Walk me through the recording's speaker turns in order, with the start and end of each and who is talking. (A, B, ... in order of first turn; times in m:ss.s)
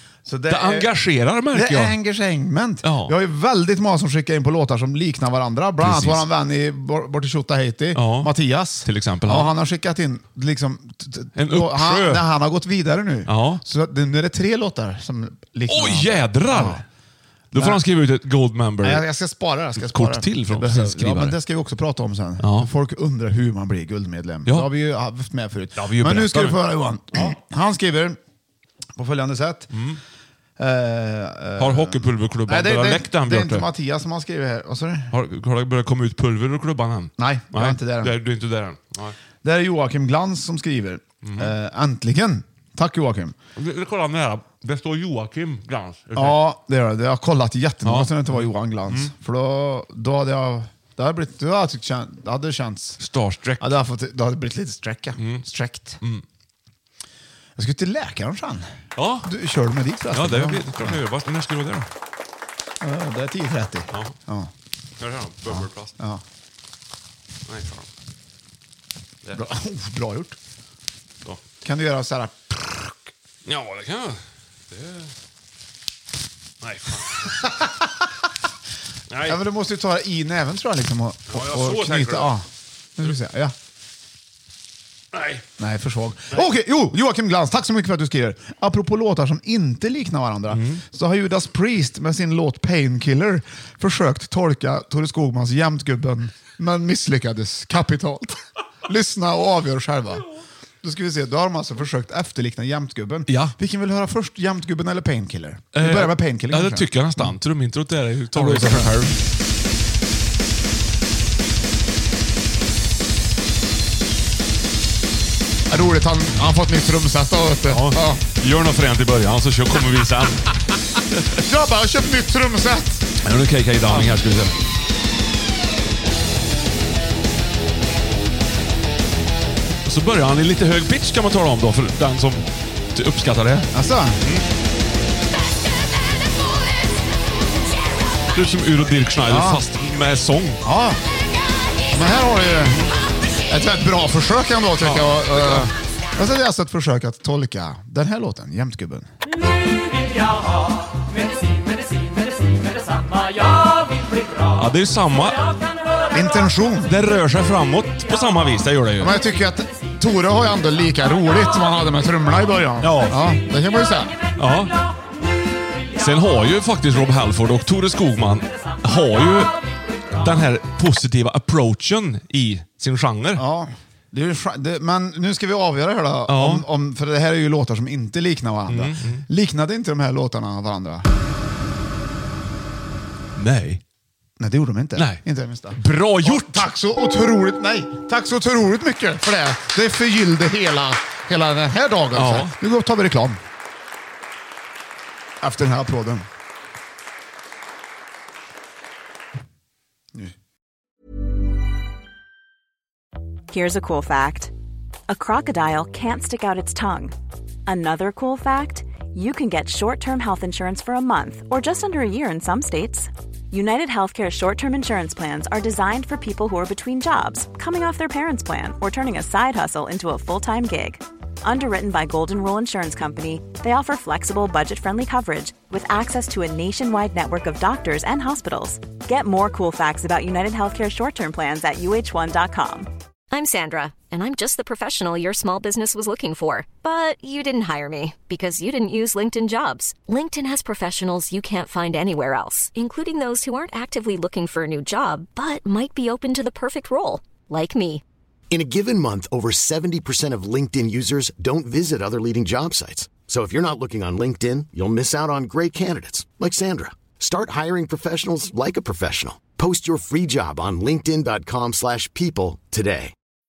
0:00.3-0:00.9 A
0:00.5-0:02.0 B
0:01.5-0:16.8 A
0:02.8-0:03.2 B
0:05.8-0:06.2 B
0:08.0-0:08.3 B
0:08.8-0:09.5 B
0:11.4-0:12.3 B
0:13.3-0:13.6 B
0:15.7-0:16.8 B
0:17.5-0:19.0 B
0:17.6-0:17.8 A
0:18.8-0:28.2 A
0:19.8-0:21.4 B
0:22.4-0:22.7 B
0:25.8-0:26.6 B
0:29.0-0:29.7 A
0:29.7-0:30.0 B
0:30.6-0:35.1 A
0:31.6-0:33.7 B
0:35.1-0:39.2 B
0:37.2-0:38.2 A
0:39.4-0:43.4 A
0:41.2-0:41.5 B
0:43.6-0:46.4 B
0:46.2-0:53.0 A
0:47.8-0:49.1 B
0:53.0-0:53.7 B
0:53.6-0:56.0 A
0:55.2-0:55.4 B
0:57.6-0:58.7 A
0:59.0-0:59.3 B
0:59.2-1:01.0 A
1:00.1-1:01.9 B
1:02.8-1:04.5 A
1:05.0-1:05.9 B
1:05.5-1:06.2 A
1:07.5-1:07.9 B
1:09.3-1:10.4 A
1:11.6-1:13.1 A
1:13.4-1:15.1 B
1:16.6-1:17.5 B
1:19.1-1:19.4 B
1:19.2-1:22.5 A
1:21.3-1:22.3 B
1:23.0-1:23.5 A
1:25.1-1:25.4 B
1:25.6-1:40.2 A
1:30.5-1:30.8 B
1:40.8-1:47.4 A
1:43.3-1:43.5 B
1:45.7-1:49.2 B
1:48.3-1:49.1 A
1:55.7-1:58.2 A
1:57.7-2:00.5 B
2:01.4-2:03.1 A
2:03.2-2:04.6 B
2:03.9-2:04.2 A
2:09.8-2:13.7 B
2:13.7-2:14.2 A
2:18.3-2:20.6 B
2:19.3-2:19.6 A
2:20.6-2:21.0 A
2:21.9-2:22.9 A
2:23.5-2:29.1 A
2:24.8-2:25.7 B
2:34.5-2:35.6 B
2:36.1-2:37.0 A
2:36.9-2:39.2 B
2:39.0-2:44.2 A
2:42.8-2:43.2 B
2:44.4-2:44.8 B
2:46.0-2:49.5 B
2:50.2-2:53.4 B
2:53.4-3:01.1 A
2:56.3-2:56.6 B
2:58.7-2:59.2 B
3:03.4-3:03.8 B
3:04.4-3:13.4 A
3:05.8-3:06.7 B
3:12.1-3:12.5 B
3:15.4-3:16.3 A
3:23.5-3:24.5 C
3:25.1-3:27.1 C
3:27.7-3:52.9 C
3:53.3-4:08.0 D
4:08.5-4:23.1 E